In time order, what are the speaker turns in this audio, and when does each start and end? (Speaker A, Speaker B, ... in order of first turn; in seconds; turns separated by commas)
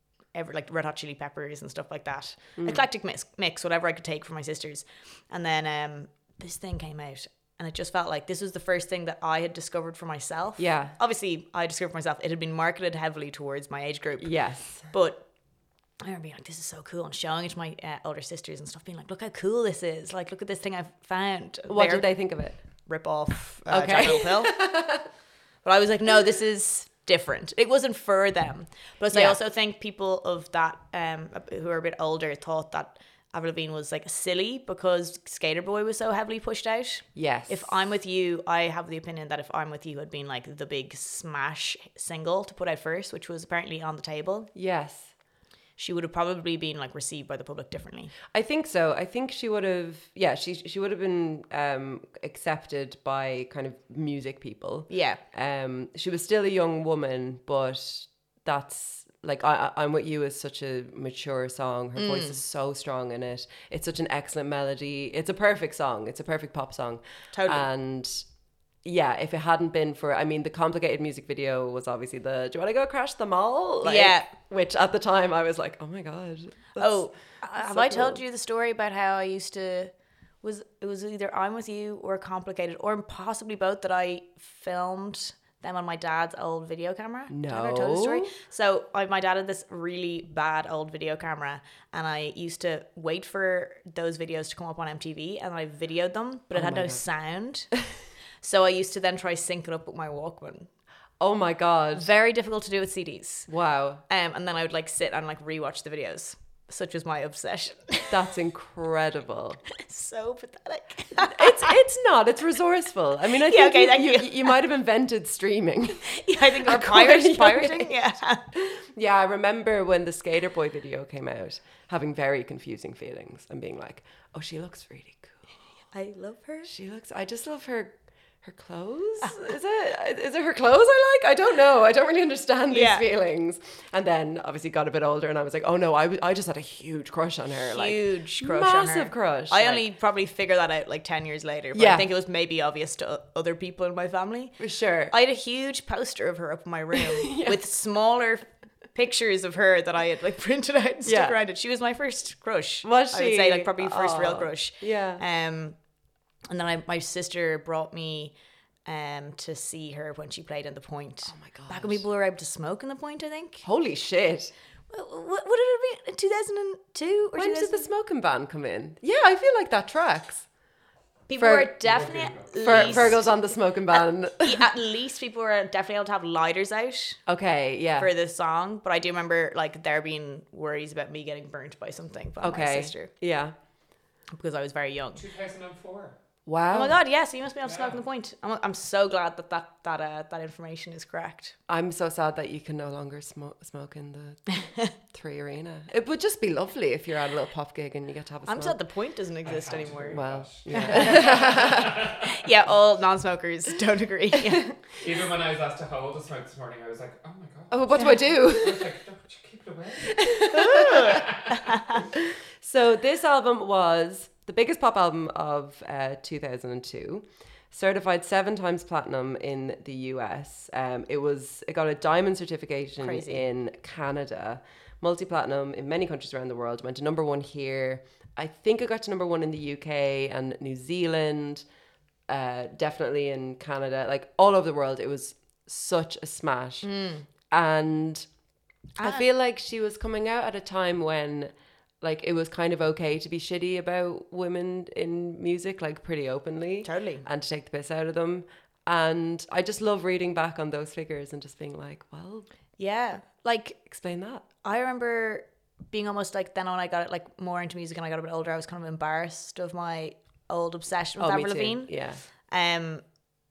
Speaker A: 0.3-14.4, Speaker B: 2.6-2.8, Speaker B: 10.6-11.0, Speaker B: 14.2-14.9, Speaker A: 14.9-15.3, Speaker A: 16.0-22.1, Speaker B: 21.7-22.6, Speaker A: 22.9-24.6, Speaker B: 23.7-25.0, Speaker A: 25.6-44.5, Speaker B: 29.1-29.4, Speaker B: 37.1-37.7, Speaker B: 44.5-45.1, Speaker A: 45.8-48.1, Speaker B: 48.3-68.2, Speaker A: 54.9-55.2, Speaker A: 62.0-62.4, Speaker A: 67.3-67.7, Speaker B: 68.8-78.2, Speaker A: 73.8-74.3, Speaker A: 76.8-97.7, Speaker B: 87.3-88.3, Speaker B: 96.5-97.0, Speaker A: 98.4-100.7, Speaker B: 101.2-102.1, Speaker A: 102.0-103.5, Speaker B: 103.5-104.0, Speaker A: 104.1-108.1, Speaker B: 108.1-109.6, Speaker A: 109.7-111.8, Speaker B: 111.2-118.0, Speaker A: 113.5-114.5, Speaker A: 116.1-118.5, Speaker B: 118.5-125.4, Speaker A: 125.9-126.7, Speaker B: 126.7-139.8, Speaker A: 132.7-133.0, Speaker A: 137.7-144.6, Speaker B: 141.7-142.1, Speaker B: 144.6-145.1, Speaker A: 145.1-155.8, Speaker B: 146.9-147.6, Speaker B: 151.1-151.4, Speaker B: 152.8-155.2, Speaker A: 156.5-158.3, Speaker A: 158.9-163.7, Speaker B: 161.3-162.0, Speaker B: 163.6-164.5, Speaker A: 164.9-167.9, Speaker B: 167.4-170.5, Speaker A: 171.3-173.3, Speaker B: 171.4-171.8, Speaker C: 171.8-173.2, Speaker B: 172.6-174.7, Speaker A: 173.9-177.2, Speaker B: 177.3-178.1, Speaker A: 178.0-183.1, Speaker B: 182.4-183.6, Speaker A: 184.3-185.2, Speaker C: 185.2-186.2, Speaker B: 186.5-187.0, Speaker A: 186.7-191.6, Speaker C: 187.6-188.0, Speaker B: 191.7-194.5, Speaker B: 195.1-198.8, Speaker A: 198.5-204.7, Speaker C: 199.4-202.2, Speaker B: 200.1-202.1, Speaker C: 205.0-210.4, Speaker B: 207.7-208.9, Speaker B: 210.1-211.2, Speaker A: 210.5-212.0, Speaker C: 211.0-211.6, Speaker B: 212.2-231.7, Speaker A: 223.0-223.4, Speaker B: 232.3-236.9, Speaker A: 236.8-237.3, Speaker B: 237.5-238.3, Speaker A: 239.0-239.2, Speaker B: 239.0-252.5, Speaker A: 246.8-247.3, Speaker A: 252.8-253.9, Speaker B: 253.9-254.4, Speaker A: 254.6-261.9, Speaker B: 261.2-262.2, Speaker A: 262.5-263.0